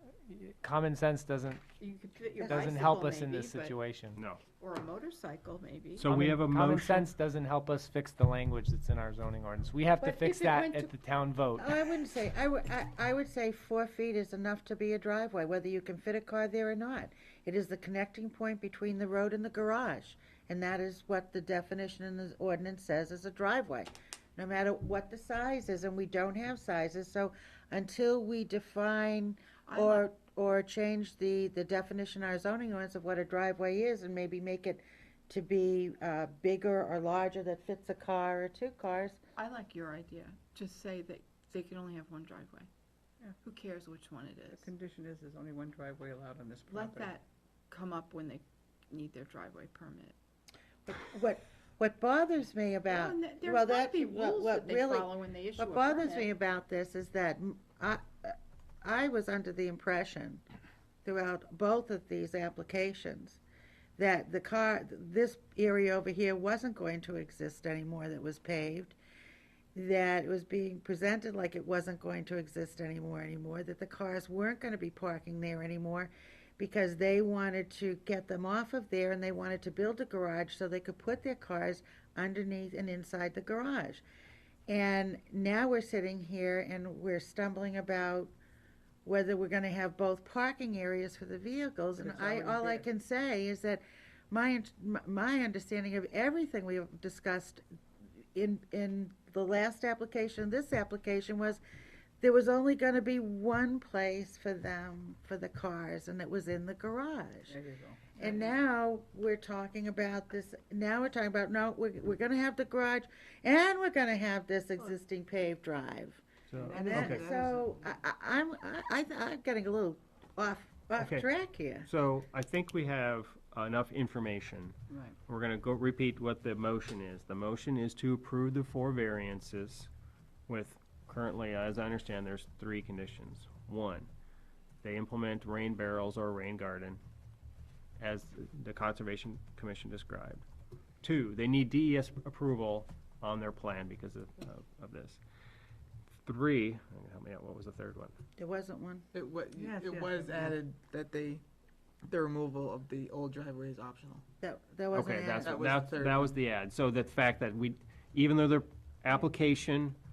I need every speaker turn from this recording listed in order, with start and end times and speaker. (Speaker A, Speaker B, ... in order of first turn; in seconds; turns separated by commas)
Speaker A: 0.3-1.6, Speaker B: 1.8-3.8, Speaker C: 2.4-2.8, Speaker A: 2.5-4.2, Speaker D: 4.1-4.4, Speaker B: 4.6-6.1, Speaker D: 6.0-7.1, Speaker A: 6.0-11.7, Speaker B: 10.0-10.9, Speaker C: 11.6-39.2, Speaker B: 29.6-30.1, Speaker B: 39.4-42.7, Speaker B: 43.4-44.7, Speaker E: 44.5-47.1, Speaker B: 46.7-50.1, Speaker C: 50.9-60.4, Speaker B: 52.9-56.3, Speaker C: 61.0-63.4, Speaker C: 64.0-69.0, Speaker C: 69.7-84.0, Speaker C: 84.7-88.3, Speaker C: 89.0-97.6, Speaker E: 92.0-92.8, Speaker C: 98.3-101.6, Speaker C: 102.2-107.6, Speaker E: 107.5-108.5, Speaker C: 108.2-121.9, Speaker D: 116.5-117.3, Speaker E: 116.6-117.8, Speaker D: 121.0-121.3, Speaker D: 121.8-124.8, Speaker E: 124.9-125.2, Speaker D: 125.3-129.9, Speaker D: 130.5-134.1, Speaker D: 134.8-137.0, Speaker D: 138.0-140.4, Speaker D: 141.0-145.2, Speaker D: 146.2-148.2, Speaker C: 148.4-149.0, Speaker F: 149.1-151.4, Speaker E: 149.5-150.6, Speaker F: 152.0-154.2, Speaker C: 154.4-155.6, Speaker D: 154.9-160.0, Speaker F: 155.4-156.3